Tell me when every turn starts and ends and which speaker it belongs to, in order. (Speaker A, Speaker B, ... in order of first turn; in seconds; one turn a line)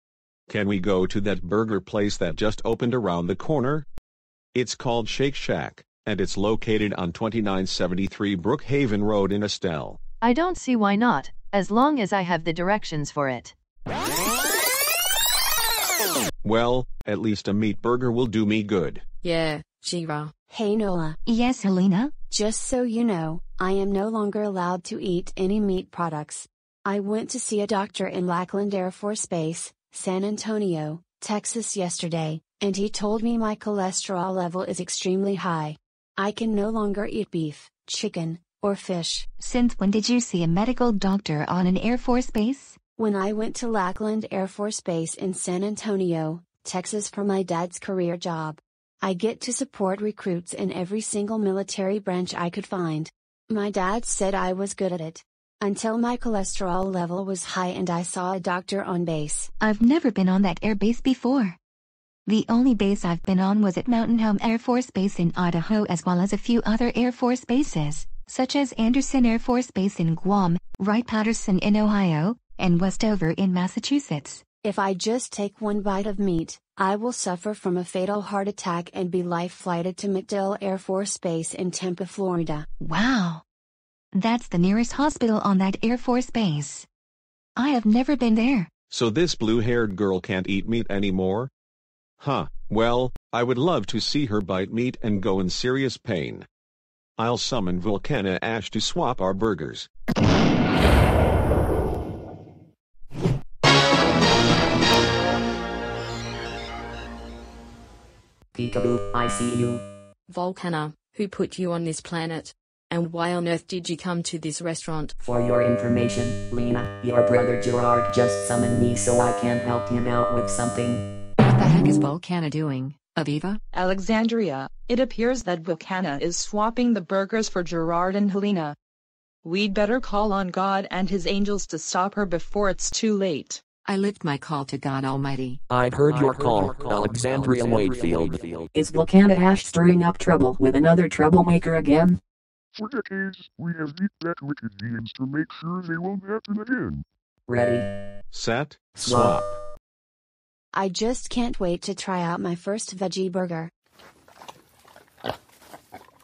Speaker A: 0.5-3.9
Speaker A: 4.5-10.0
Speaker B: 10.2-13.5
Speaker A: 16.4-19.0
Speaker C: 19.2-20.3
Speaker D: 20.5-21.2
Speaker E: 21.3-22.1
Speaker D: 22.3-39.3
Speaker E: 39.4-42.8
Speaker D: 43.0-59.5
Speaker E: 59.6-61.6
Speaker E: 62.3-74.4
Speaker D: 74.6-82.7
Speaker E: 82.8-83.4
Speaker E: 84.1-86.9
Speaker E: 87.6-88.7
Speaker A: 88.9-91.5
Speaker A: 92.2-96.5
Speaker A: 97.2-99.9
Speaker F: 108.5-109.8
Speaker C: 110.3-115.1
Speaker F: 115.2-121.0
Speaker G: 121.4-123.6
Speaker H: 123.7-128.8
Speaker H: 129.4-133.6
Speaker G: 133.9-135.6
Speaker I: 136.2-138.5
Speaker J: 136.9-137.4
Speaker F: 138.7-142.2
Speaker J: 142.8-147.0
Speaker F: 147.5-147.9
Speaker A: 148.3-149.6
Speaker F: 149.0-149.4
Speaker D: 150.7-153.7